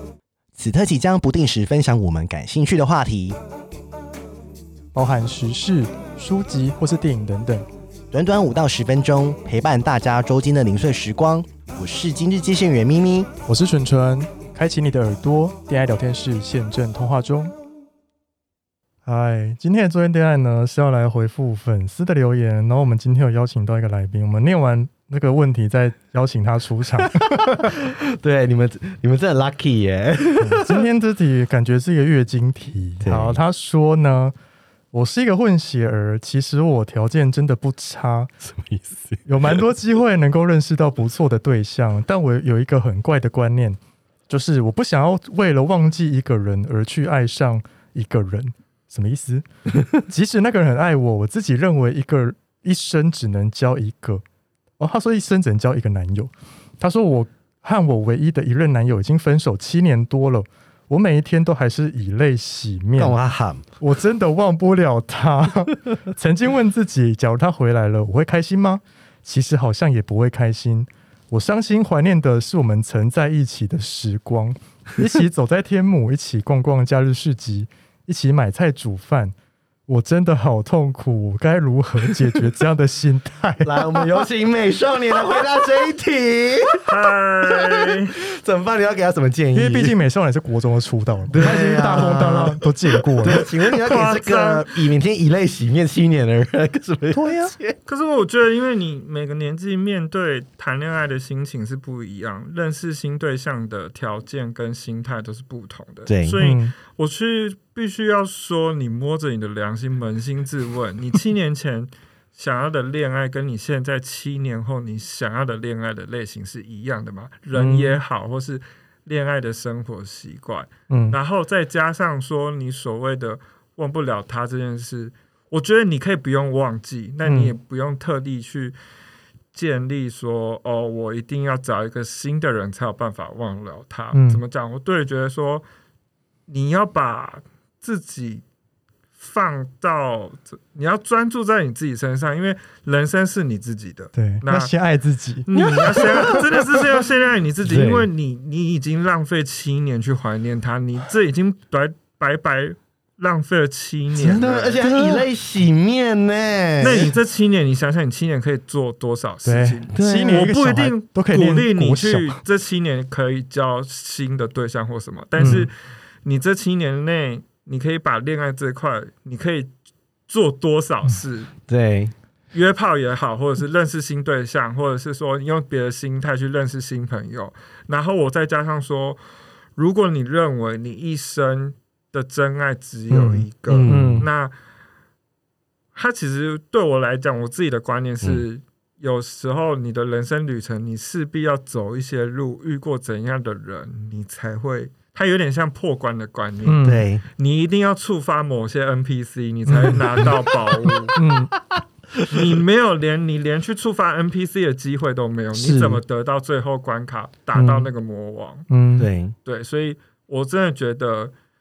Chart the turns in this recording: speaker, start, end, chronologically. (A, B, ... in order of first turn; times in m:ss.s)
0:00.6-0:03.4 A
0:04.9-0:07.7 B
0:08.1-0:13.3 A
0:13.4-0:17.5 B
0:19.0-0:27.7 B
0:27.6-0:30.9 A
0:30.4-0:34.3 B
0:33.0-0:33.4 A
0:34.9-0:38.3 B
0:38.4-0:39.6 A
0:39.2-0:43.8 B
0:44.3-0:54.2 B
0:54.8-1:03.2 B
1:03.0-1:03.7 A
1:03.8-1:19.3 B
1:19.9-1:24.2 B
1:23.6-1:26.9 A
1:26.8-1:28.1 C
1:27.4-1:30.0 A
1:29.5-1:33.4 B
1:31.3-1:32.6 A
1:33.2-1:37.8 A
1:33.3-1:34.9 C
1:37.1-1:37.5 B
1:37.9-2:08.8 C
1:46.1-1:46.4 A
1:46.4-1:46.7 B
1:57.5-1:58.0 B
2:00.9-2:01.2 B
2:07.2-2:07.6 B
2:09.5-2:15.6 C
2:14.1-2:14.4 B
2:16.5-2:18.4 C
2:19.2-2:24.7 C
2:24.1-2:25.5 B
2:25.4-2:35.2 C
2:25.5-2:26.8 A
2:27.6-2:28.1 A
2:34.1-2:37.1 A
2:36.8-2:49.7 C
2:39.4-2:42.4 B
2:39.9-2:40.5 A
2:45.4-2:45.7 B
2:50.3-2:51.5 C
2:51.7-2:52.1 A
2:52.5-2:59.2 C
2:59.8-3:04.5 C
3:03.1-3:04.2 B
3:03.7-3:04.3 A
3:05.9-3:21.2 C
3:16.6-3:17.0 B
3:16.8-3:17.2 A
3:19.7-3:20.2 B
3:21.1-3:21.5 B
3:22.2-3:28.7 C
3:25.5-3:26.0 A
3:27.5-3:27.9 B
3:28.7-3:29.1 B
3:29.0-3:29.4 A
3:29.4-3:31.3 C